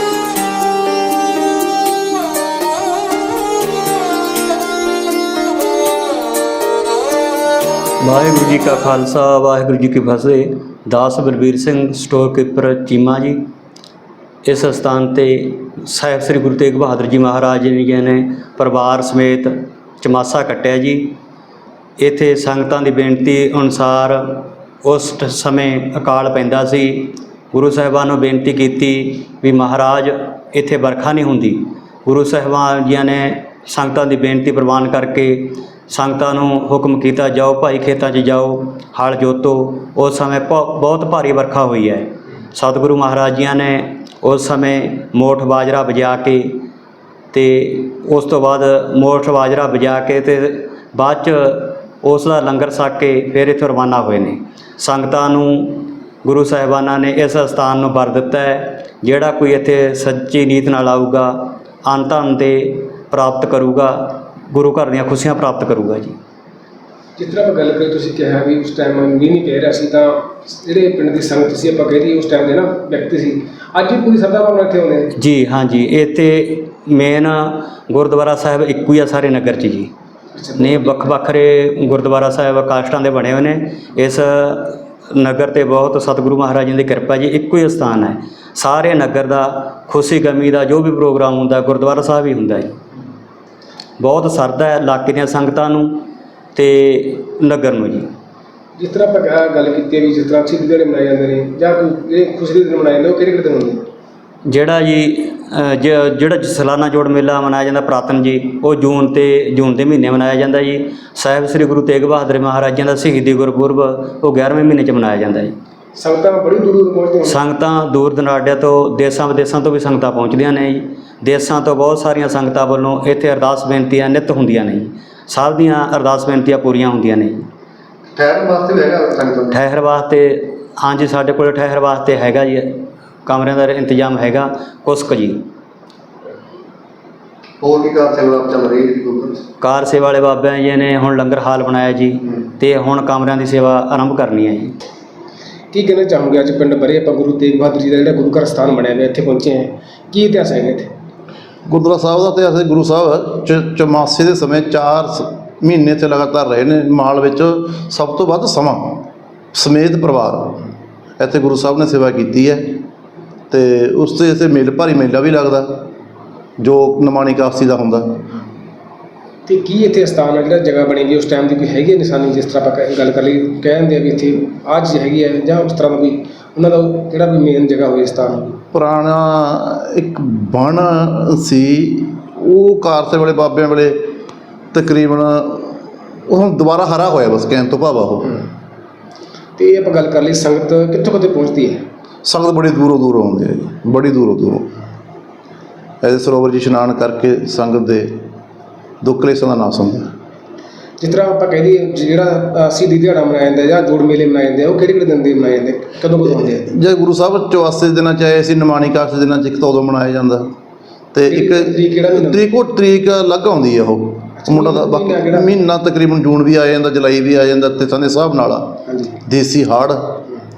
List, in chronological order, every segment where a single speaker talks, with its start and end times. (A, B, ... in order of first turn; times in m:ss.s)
0:08.0-0:13.4 A
0:14.5-0:21.2 A
0:22.0-0:46.6 A
0:47.3-1:06.1 A
1:07.2-1:15.1 B
1:15.2-1:19.9 A
1:20.3-1:21.1 B
1:20.6-1:32.7 A
1:34.0-1:38.1 A
1:38.8-1:43.8 B
1:44.5-1:55.5 A
1:56.0-1:57.4 B
1:57.2-2:07.5 A
2:08.2-2:09.6 C
2:09.5-2:15.4 A
2:17.6-2:19.4 C
2:19.6-2:24.7 A
2:25.7-2:30.9 B
2:31.7-2:40.6 D
2:41.2-2:42.8 D
2:43.5-2:45.8 D
2:46.6-2:48.3 D
2:49.5-2:58.6 B
2:58.7-3:04.1 D
3:04.7-3:08.4 D
3:09.6-3:11.8 B
3:12.3-3:14.7 D
3:16.0-3:18.2 D
3:19.0-3:20.1 D
3:21.0-3:26.7 B
3:26.2-3:30.5 D
3:31.1-3:40.2 D
3:31.3-3:32.4 B
3:34.4-3:35.5 B
3:38.9-3:39.2 B